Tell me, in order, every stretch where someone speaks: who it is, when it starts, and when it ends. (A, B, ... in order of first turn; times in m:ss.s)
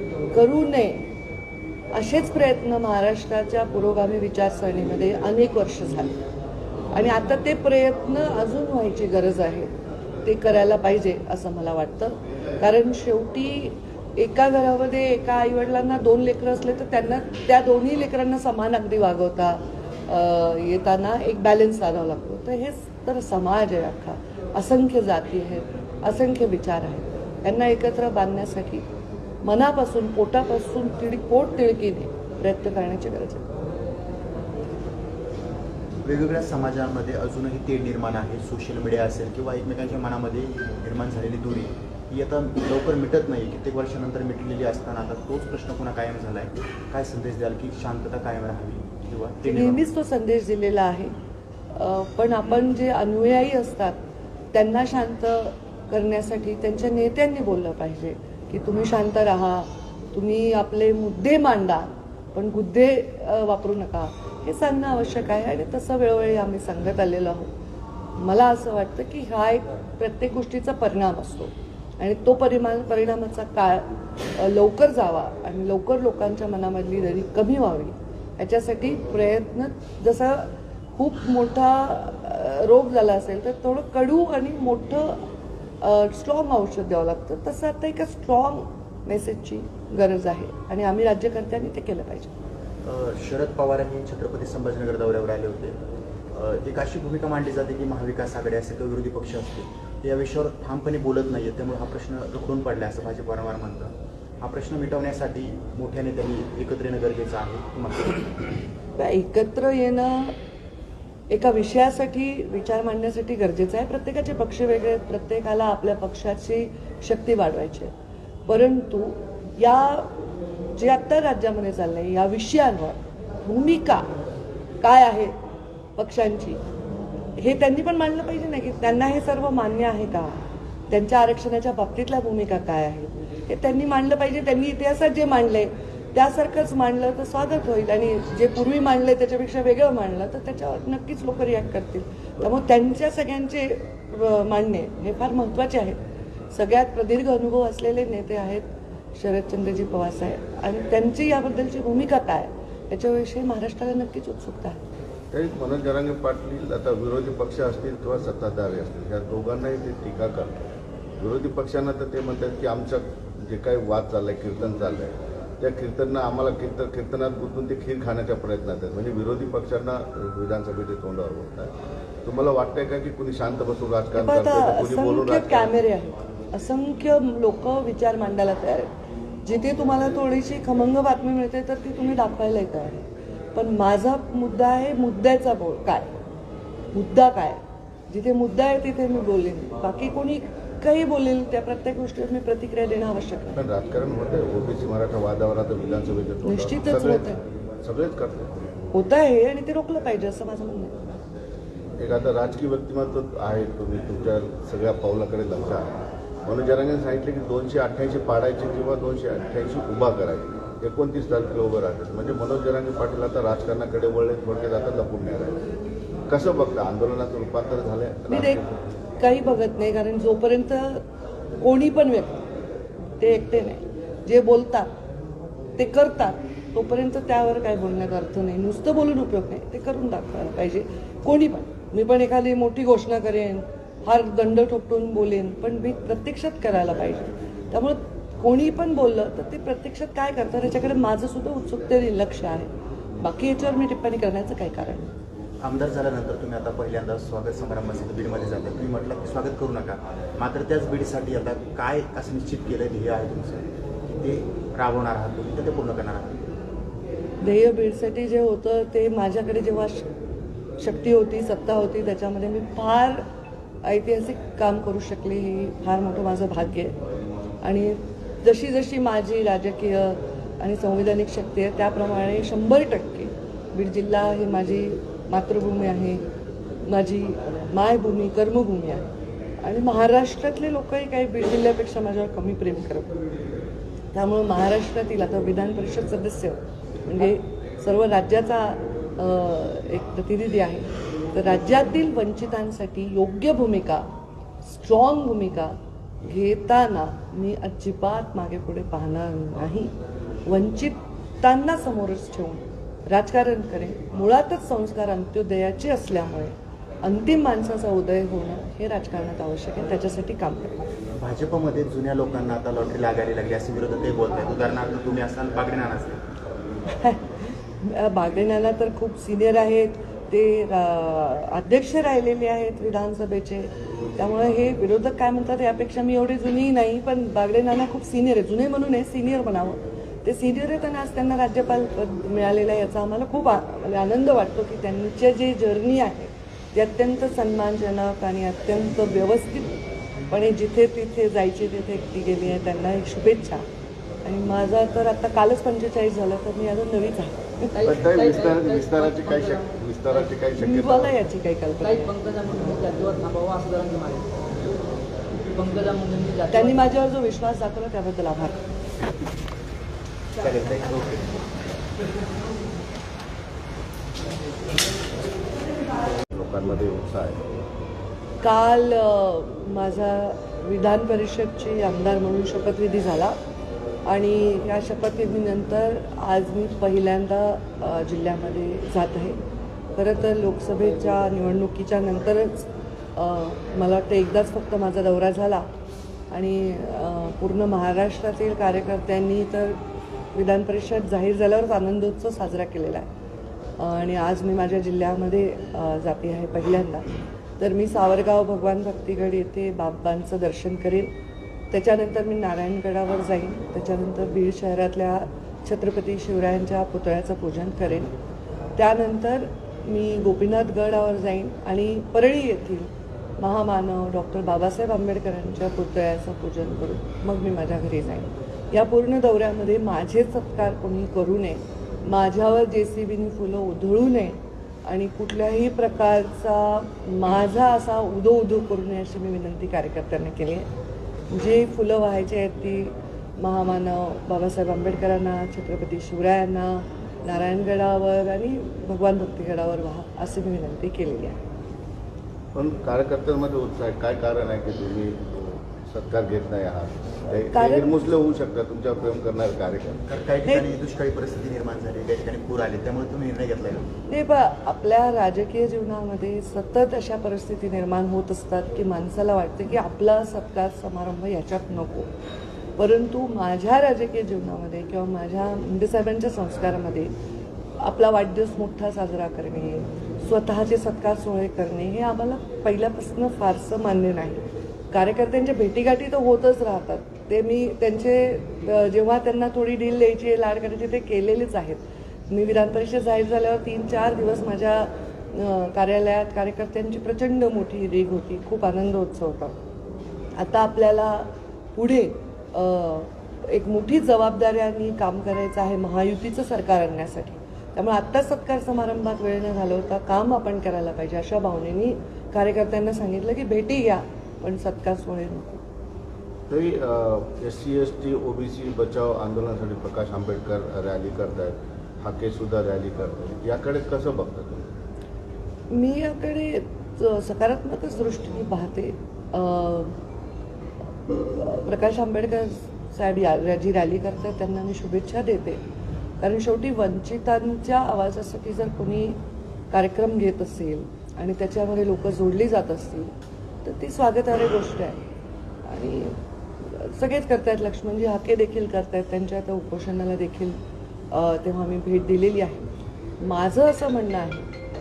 0:00.3-0:01.1 A
0:01.9-0:06.2 A
0:06.9-0:09.7 A
0:10.2-0:28.8 A
0:29.4-0:33.5 A
0:36.0-0:49.8 B
0:49.4-0:51.1 A
0:51.7-0:54.0 A
0:54.5-1:07.5 A
1:08.2-1:25.2 A
1:25.8-1:32.3 A
1:32.8-1:35.8 B
1:36.3-1:48.5 B
1:49.0-1:50.4 A
1:51.3-1:57.9 A
1:58.4-2:00.1 A
2:00.8-2:04.1 A
2:04.8-2:05.3 A
2:06.0-2:06.6 A
2:07.4-2:26.0 A
2:26.5-2:34.8 A
2:35.3-2:40.6 C
2:41.2-2:51.7 C
2:52.2-2:55.8 C
2:54.1-2:58.9 A
2:59.4-3:06.2 A
3:06.9-3:13.5 A
3:13.5-3:18.6 C
3:16.4-3:17.4 A
3:18.9-3:21.0 A
3:22.0-3:25.9 C
3:26.4-3:35.6 C
3:36.3-3:38.7 C
3:38.3-3:38.6 A
3:39.2-3:41.0 A
3:41.6-3:42.4 A
3:43.2-3:44.9 A
3:45.8-4:05.1 A
4:05.6-4:13.6 B
4:14.2-4:16.3 B
4:17.4-4:20.1 A
4:20.8-4:23.2 A
4:23.8-4:27.0 A
4:27.6-4:36.2 A
4:36.9-4:43.2 A
4:44.1-4:54.1 A
4:54.6-4:59.9 A
5:00.5-5:10.8 A
5:11.2-5:16.2 B
5:17.0-5:17.2 A
5:17.8-5:39.8 A
5:40.3-5:43.6 A
5:44.2-5:47.8 A
5:47.8-5:49.6 D
5:47.8-5:51.2 C
5:50.6-5:52.1 A
5:51.9-5:54.3 D
5:55.5-5:56.7 D
5:56.5-5:58.6 A
6:00.4-6:01.4 B
6:06.3-6:07.4 C
6:08.4-6:13.4 A
6:14.1-6:19.4 A
6:20.0-6:25.7 A
6:26.3-6:29.8 A
6:30.3-6:33.1 A
6:33.8-6:41.1 A
6:41.7-6:48.1 A
6:48.8-7:10.7 A
7:11.3-7:21.4 A
7:22.5-7:30.0 C
7:27.5-7:27.9 A
7:30.1-7:33.9 B
7:34.1-7:42.1 A
7:42.8-7:47.1 A
7:47.8-8:09.6 A
8:10.4-8:25.6 A
8:26.5-8:34.7 C
8:35.7-8:40.0 A
8:41.1-8:45.6 A
8:46.2-8:49.2 A
8:49.7-8:53.1 A
8:53.6-8:55.0 A
8:55.6-9:00.6 A
9:01.1-9:02.6 A
9:03.2-9:04.5 A